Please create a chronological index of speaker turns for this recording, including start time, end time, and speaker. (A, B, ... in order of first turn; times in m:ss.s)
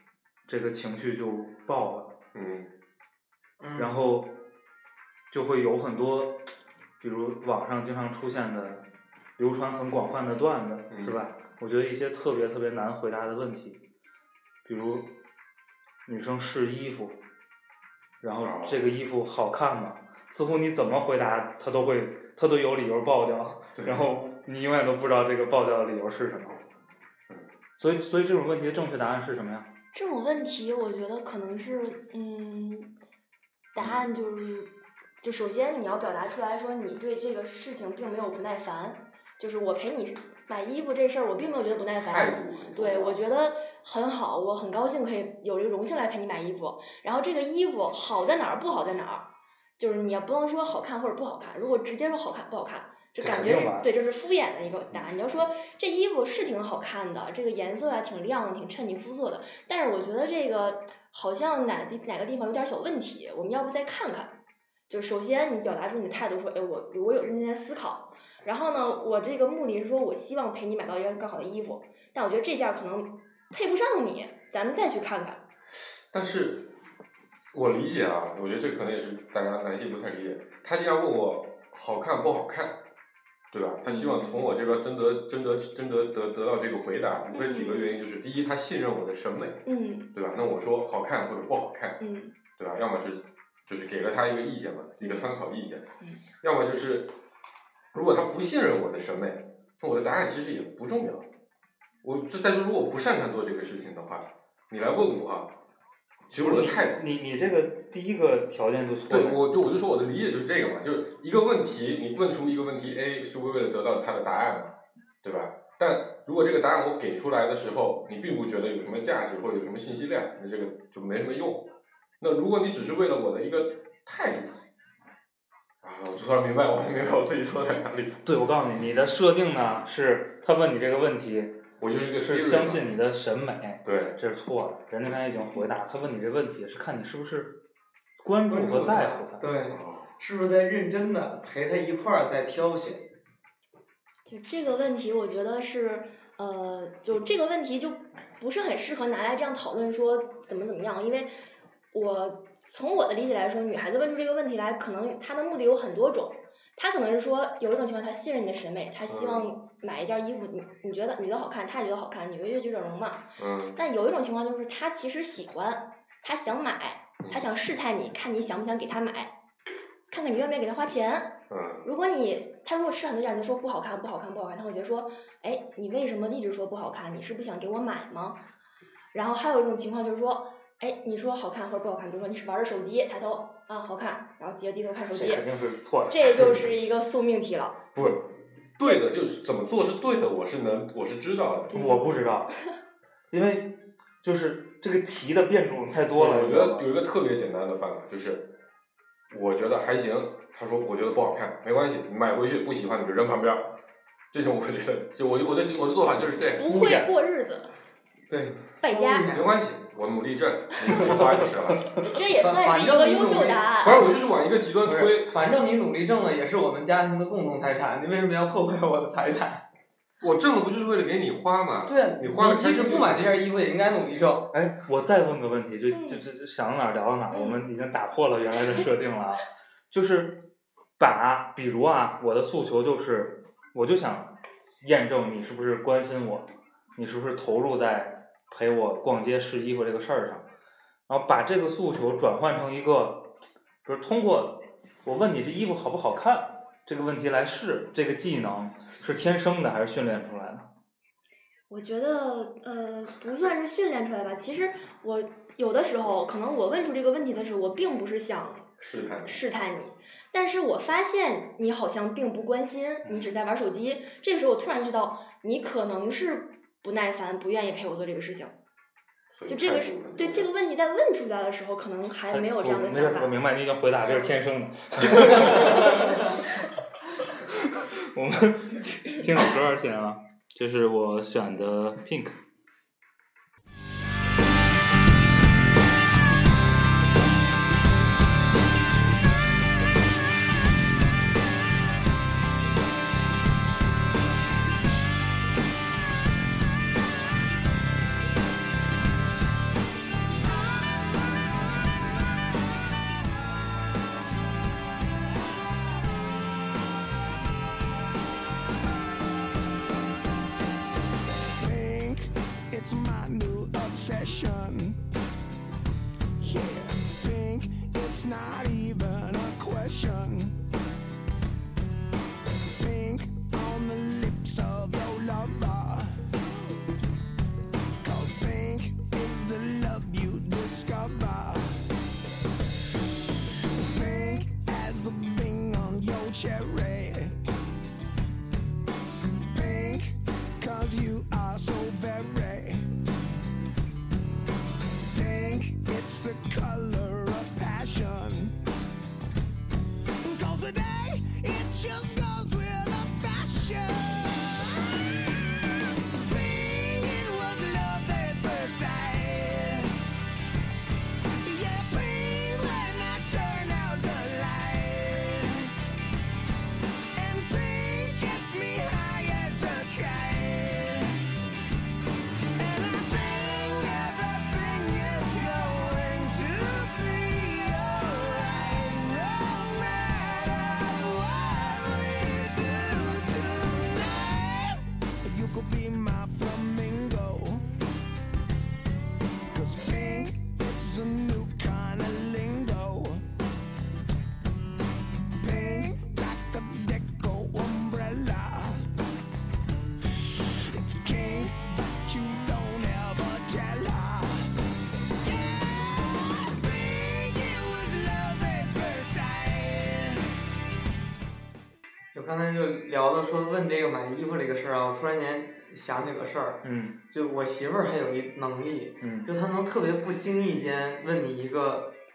0:00.5-0:02.1 A
0:02.3-0:02.7 B
0:03.6-0:04.0 C
0:03.8-0:04.4 A
0:05.3-0:08.8 A
0:09.4-0:13.8 A
0:10.9-0:11.2 B
0:14.6-0:15.1 A
0:16.0-0:17.2 A
0:18.2-0:26.6 A
0:18.4-0:18.8 B
0:23.8-0:24.1 B
0:27.8-0:29.7 A
0:29.9-0:32.9 D
0:33.7-0:34.7 D
0:33.8-0:34.0 B
0:35.2-0:49.2 D
0:41.9-0:43.2 B
0:49.8-1:04.4 D
0:53.2-0:53.9 A
1:04.9-1:15.4 D
1:16.1-1:16.7 B
1:17.5-1:22.8 B
1:23.5-1:29.6 B
1:23.8-1:24.5 D
1:27.3-1:27.9 D
1:29.6-1:30.1 D
1:30.1-1:32.0 B
1:32.0-1:32.3 D
1:32.6-1:35.8 B
1:35.0-1:35.3 D
1:36.4-1:37.1 B
1:37.9-1:41.2 B
1:42.0-1:45.5 B
1:46.3-1:47.0 B
1:46.3-1:49.4 A
1:49.1-2:01.7 B
2:02.2-2:04.5 B
2:05.8-2:08.2 B
2:08.2-2:11.6 A
2:11.8-2:12.9 B
2:12.2-2:17.6 A
2:13.8-2:14.2 B
2:18.2-2:19.4 A
2:18.5-2:23.0 C
2:19.7-2:20.1 B
2:24.2-2:31.3 D
2:31.9-2:49.3 D
2:39.1-2:39.5 B
2:43.4-2:43.8 B
2:50.1-2:58.4 D
2:51.5-2:51.8 B
2:59.1-3:05.4 D
3:05.1-3:06.5 A
3:06.1-3:07.8 D
3:07.9-3:11.8 B
3:11.7-3:12.5 A
3:11.7-3:12.6 D
3:13.3-3:16.9 A
3:16.1-3:18.5 B
3:19.3-3:23.7 B
3:24.3-3:26.6 B
3:26.6-3:27.7 D
3:26.6-3:27.1 A
3:28.3-3:29.5 C
3:28.8-3:29.3 D
3:29.3-3:32.1 B
3:32.0-3:34.1 D
3:32.4-3:34.1 C
3:33.8-3:35.5 B
3:34.8-3:39.6 C
3:40.2-3:43.4 B
3:41.8-3:44.5 C
3:44.5-3:50.4 A
3:45.9-3:46.2 D
3:47.3-3:47.6 D
3:51.0-4:00.4 A
4:01.1-4:03.3 A
4:03.8-4:10.6 A
4:11.7-4:18.7 D
4:18.8-4:19.4 B
4:19.2-4:28.5 D
4:23.0-4:23.3 A
4:29.3-4:30.5 B
4:29.5-4:33.4 D
4:32.3-4:36.4 A
4:35.4-4:35.7 B
4:37.4-4:42.4 A
5:11.6-5:15.0 E
5:16.4-5:20.6 E
5:22.7-5:26.2 E
5:28.0-5:31.8 E
5:33.7-5:37.4 E
5:39.4-5:42.9 E
5:45.0-5:48.6 E
5:50.2-5:55.5 E
5:56.1-6:00.0 E
6:01.4-6:05.7 E
6:07.1-6:11.2 E
6:12.6-6:27.7 E
6:29.5-6:33.3 E
6:35.4-6:38.9 E
6:40.0-6:44.5 E
6:45.2-6:50.3 E
6:52.1-7:01.9 C
6:56.6-6:57.0 A
6:59.0-6:59.3 A